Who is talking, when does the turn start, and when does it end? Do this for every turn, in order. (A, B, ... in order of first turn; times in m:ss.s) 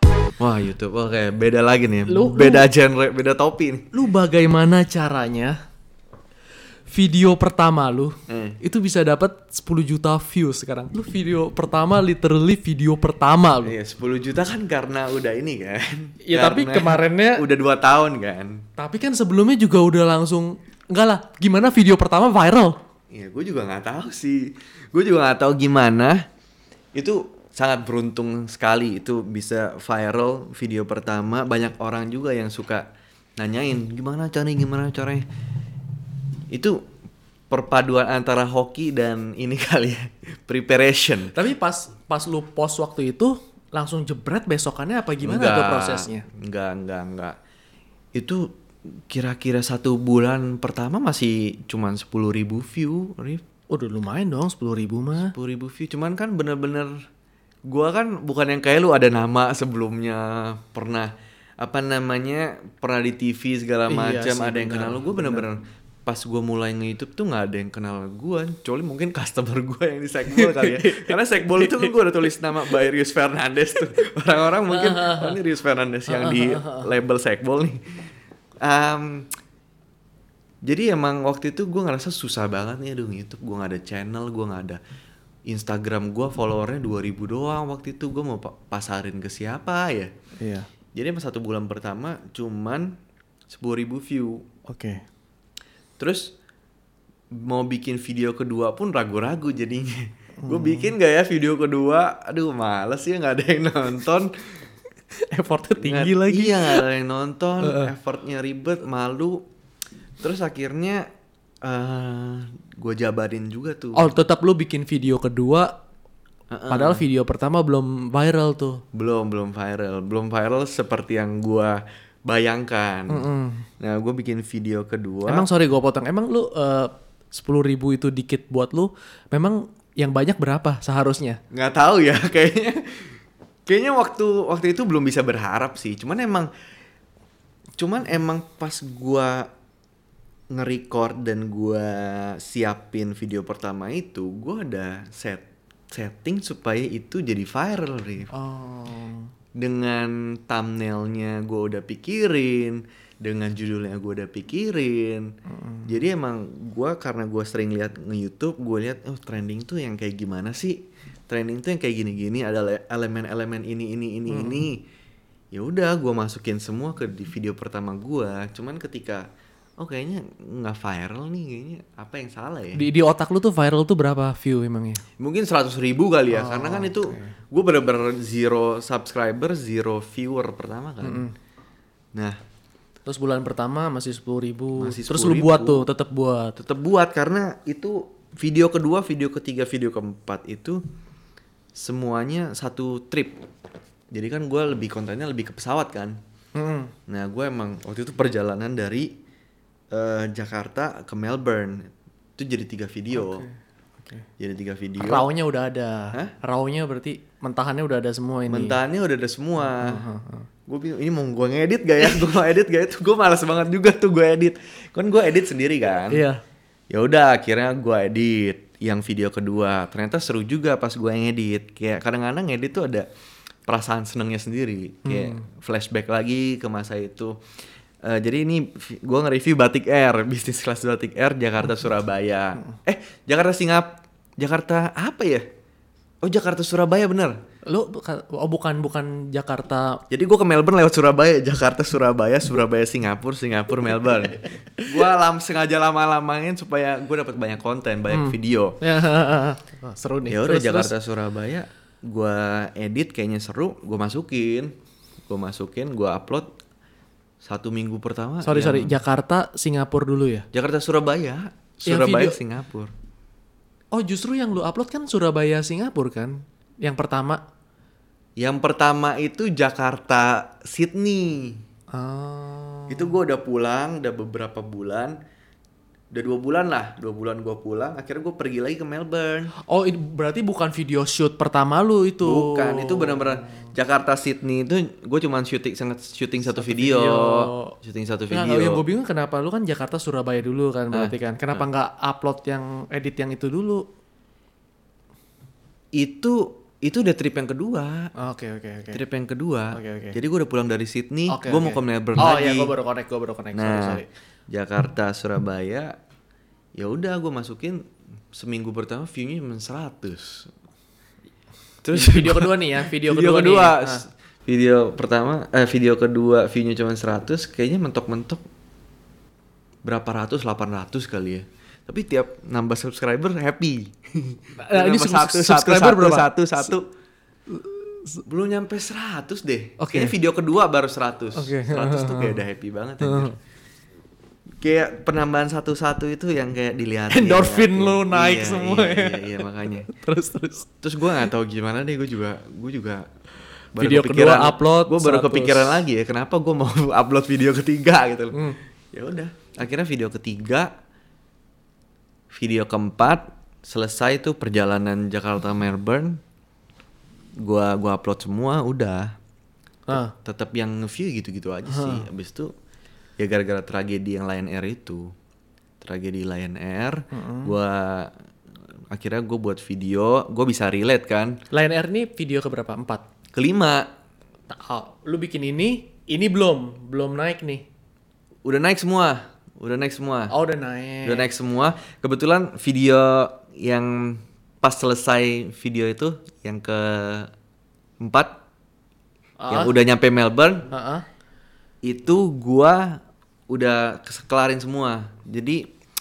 0:00.4-0:03.9 A
0:02.1-0:02.7 B
0:03.9-0:05.6 B
0:06.9-0:13.7 B
0:08.3-0:08.6 A
0:13.6-0:18.6 A
0:16.2-0:17.4 B
0:18.8-0:22.8 B
0:23.1-0:26.2 A
0:27.0-0:32.9 A
0:33.4-0:35.2 A
0:36.5-0:36.8 A
0:37.5-0:41.4 A
0:41.3-0:46.3 B
0:45.2-0:47.4 A
0:48.2-0:53.4 A
0:53.7-0:55.3 B
0:55.2-0:56.9 A
0:57.7-1:17.8 A
1:03.9-1:05.5 B
1:10.3-1:12.0 B
1:14.7-1:15.4 B
1:16.1-1:16.9 B
1:18.6-1:19.3 A
1:20.6-1:24.8 A
1:25.5-1:30.1 A
1:30.4-1:30.7 B
1:31.0-1:33.0 A
1:33.5-1:34.5 A
1:34.7-1:35.0 B
1:36.0-1:36.3 A
1:37.3-1:44.3 A
1:40.4-1:40.9 B
1:45.1-1:46.8 B
1:45.8-1:49.4 A
1:47.6-1:47.9 B
1:50.2-1:51.1 A
1:51.6-1:54.1 A
1:54.0-1:55.7 B
1:56.5-1:57.0 A
1:56.7-1:58.8 B
1:58.9-2:03.3 A
2:03.1-2:03.7 B
2:03.8-2:05.5 A
2:05.3-2:11.4 B
2:11.5-2:16.5 A
2:17.8-2:19.5 A
2:20.5-2:28.3 A
2:28.3-2:29.3 B
2:29.6-2:35.3 A
2:35.5-2:35.9 B
2:35.9-2:44.8 A
2:44.3-2:44.7 B
2:45.5-2:49.3 A
2:49.8-2:52.9 A
2:52.8-2:55.0 B
2:55.2-3:01.3 A
2:56.3-2:57.4 B
3:01.0-3:01.3 B
3:03.1-3:06.6 B
3:04.8-3:05.8 A
3:06.6-3:10.8 A
3:11.8-3:13.4 A
3:14.1-3:16.2 A
3:16.6-3:16.9 B
3:17.1-3:19.1 A
3:19.9-3:23.5 A
3:23.1-3:24.3 B
3:24.4-3:25.3 A
3:25.0-3:28.8 B
3:28.5-3:30.0 A
3:29.6-3:30.5 B
3:30.7-3:36.2 A
3:36.1-3:36.4 B
3:36.9-3:43.1 A
3:43.7-3:47.4 A
3:45.0-3:45.4 B
3:48.0-3:55.5 A
3:56.2-3:57.4 A
3:57.7-4:00.0 B
4:00.1-4:08.8 A
4:08.1-4:10.9 B
4:10.3-4:14.8 A
4:15.3-4:16.5 A
4:17.4-4:19.0 A
4:18.4-4:20.5 B
4:20.5-4:22.9 A
4:21.9-4:22.4 B
4:23.9-4:27.4 B
4:28.4-4:31.6 A
4:31.9-4:33.2 B
4:32.9-4:35.2 A
4:36.1-4:39.5 A
4:39.6-4:43.5 B
4:42.2-4:48.8 A
4:46.6-4:47.8 B
4:48.3-4:53.8 B
4:50.9-4:51.6 A
4:56.0-4:58.1 A
4:58.2-4:59.0 B
4:58.9-5:02.7 A
4:59.7-5:00.2 B
5:01.3-5:04.1 B
5:03.5-5:05.9 A
5:06.8-5:10.5 A
5:11.8-5:18.4 A
5:11.9-5:14.0 B
5:19.8-5:26.9 A
5:24.6-5:26.7 B
5:27.5-5:28.2 B
5:28.2-5:33.3 A
5:29.8-5:30.2 B
5:31.4-5:32.4 B
5:33.0-5:33.3 B
5:34.6-5:39.9 A
5:37.1-5:40.7 B
5:40.8-5:43.1 A
5:43.7-5:48.4 A
5:43.8-5:45.8 B
5:48.9-5:50.7 A
5:52.3-5:56.2 A
5:57.4-5:59.2 A
5:59.9-6:00.1 B
5:59.9-6:02.5 A
6:01.7-6:02.1 B
6:03.2-6:05.1 A
6:05.8-6:08.1 A
6:07.1-6:07.5 B
6:08.9-6:11.4 A
6:11.5-6:13.0 B
6:13.3-6:13.9 A
6:14.5-6:17.6 B
6:18.5-6:20.3 A
6:20.3-6:21.3 B
6:21.0-6:27.3 A
6:28.0-6:28.4 A
6:29.4-6:29.8 B
6:29.5-6:30.7 A
6:30.7-6:31.1 B
6:31.8-6:35.7 A